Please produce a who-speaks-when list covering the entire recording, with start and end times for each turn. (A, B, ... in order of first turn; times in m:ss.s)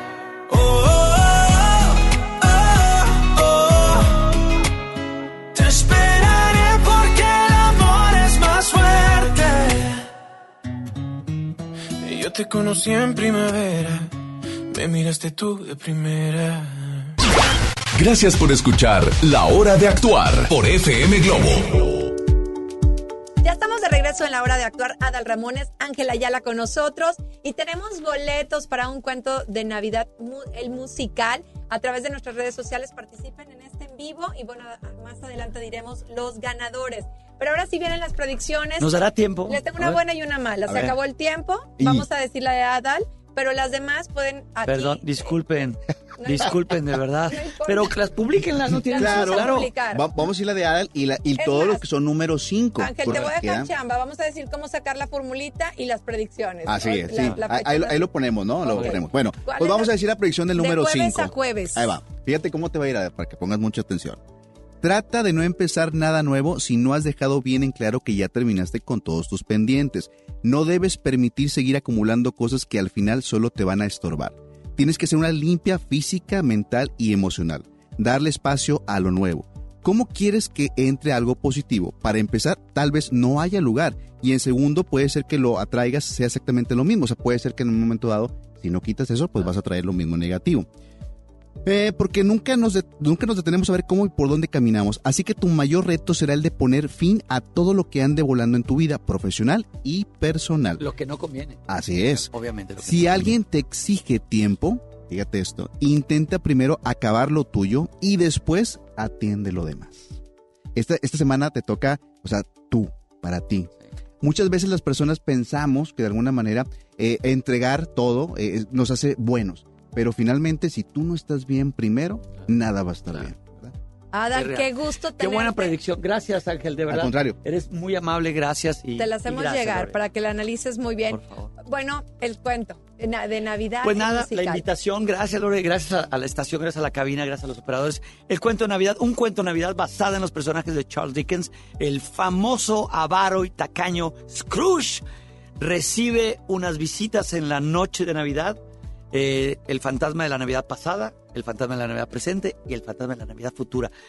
0:00.5-0:04.1 A
0:05.5-0:10.0 A
0:12.0-0:14.1 A
0:14.7-0:16.8 A
0:17.9-0:22.1 B
0:23.4-0:45.0 C
0:38.8-0:40.0 D
0:40.7-0:40.9 E
0:41.8-0:42.1 E
0:44.6-0:49.7 D
0:46.2-0:46.5 C
0:47.3-0:47.9 C
0:48.8-0:53.7 E
0:48.9-0:50.0 C
0:51.4-0:51.8 C
0:52.8-0:58.0 C
0:56.6-1:04.2 E
0:57.1-0:57.4 D
0:58.6-0:59.9 C
1:00.6-1:01.9 C
1:04.8-1:30.7 E
1:31.6-1:40.8 E
1:40.8-1:43.4 D
1:41.7-1:42.3 E
1:42.8-1:50.2 E
1:50.7-2:03.7 E
2:04.1-2:05.7 C
2:04.3-2:10.0 D
2:06.9-2:07.4 E
2:09.0-2:14.6 C
2:11.1-2:11.5 D
2:13.8-2:25.0 D
2:25.6-2:28.6 D
2:29.1-2:33.9 D